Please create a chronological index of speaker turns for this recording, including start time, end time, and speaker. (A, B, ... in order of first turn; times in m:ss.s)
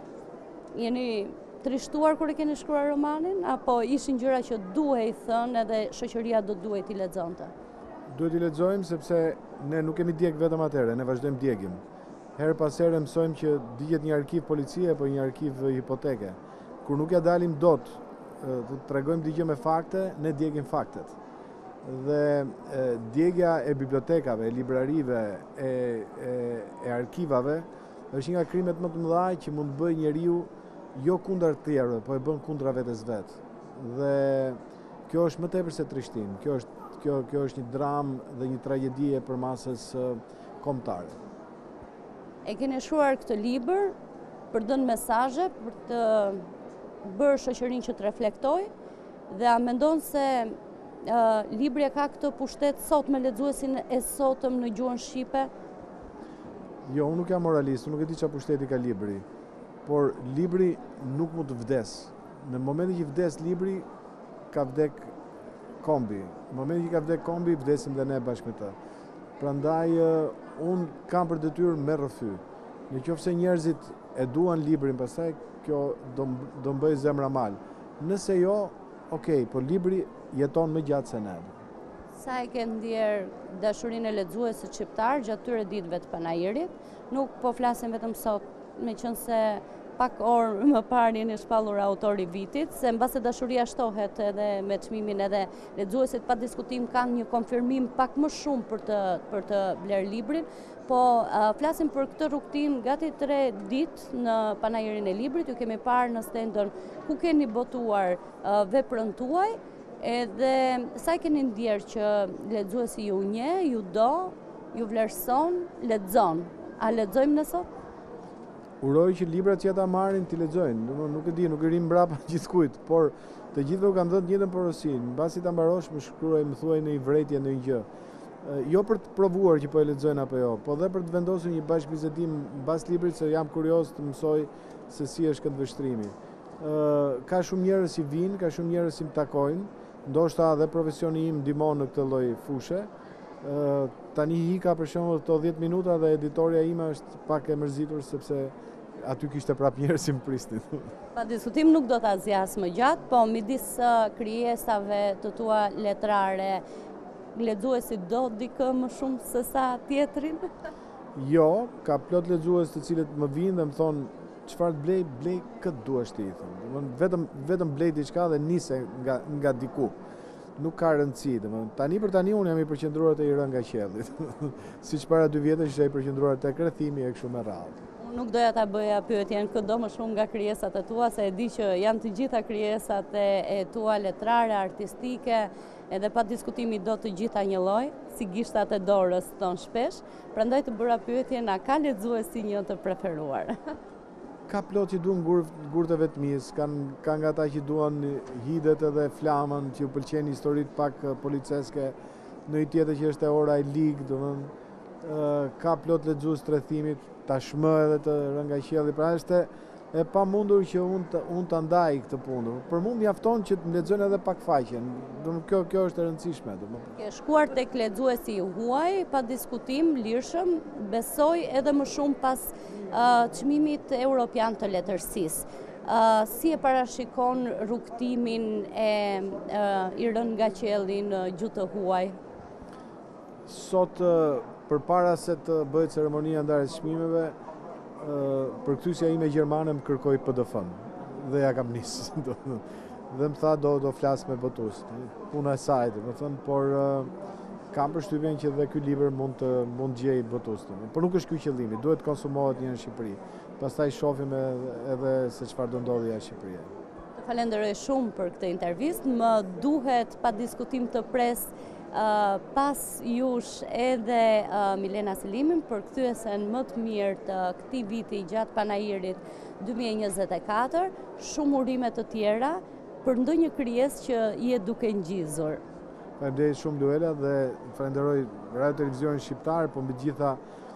0:00.8-0:07.5 A
0:08.1-0:11.8 B
0:12.4-0:21.2 B
0:21.8-0:41.2 B
0:42.4-0:44.0 A
0:44.5-0:46.4 A
0:47.0-0:48.7 A
0:49.3-0:55.5 A
0:56.9-0:59.2 B
0:59.8-1:03.8 B
1:04.5-1:05.2 B
1:05.8-1:08.8 B
1:09.4-1:21.5 B
1:22.2-1:57.7 A
1:58.8-2:07.9 B
2:08.4-2:22.9 B
2:23.4-2:30.9 B
2:31.1-2:36.6 A
2:37.3-2:40.5 A
2:41.2-2:50.0 B
2:50.6-2:57.8 B
2:58.0-3:13.6 A
3:14.5-3:22.0 B
3:22.5-3:24.5 B
3:25.0-3:36.9 B
3:37.0-3:52.2 A
3:53.5-3:57.4 B
3:58.0-4:07.1 B
4:07.7-4:16.7 B
4:17.2-4:35.6 A
4:36.2-4:40.4 B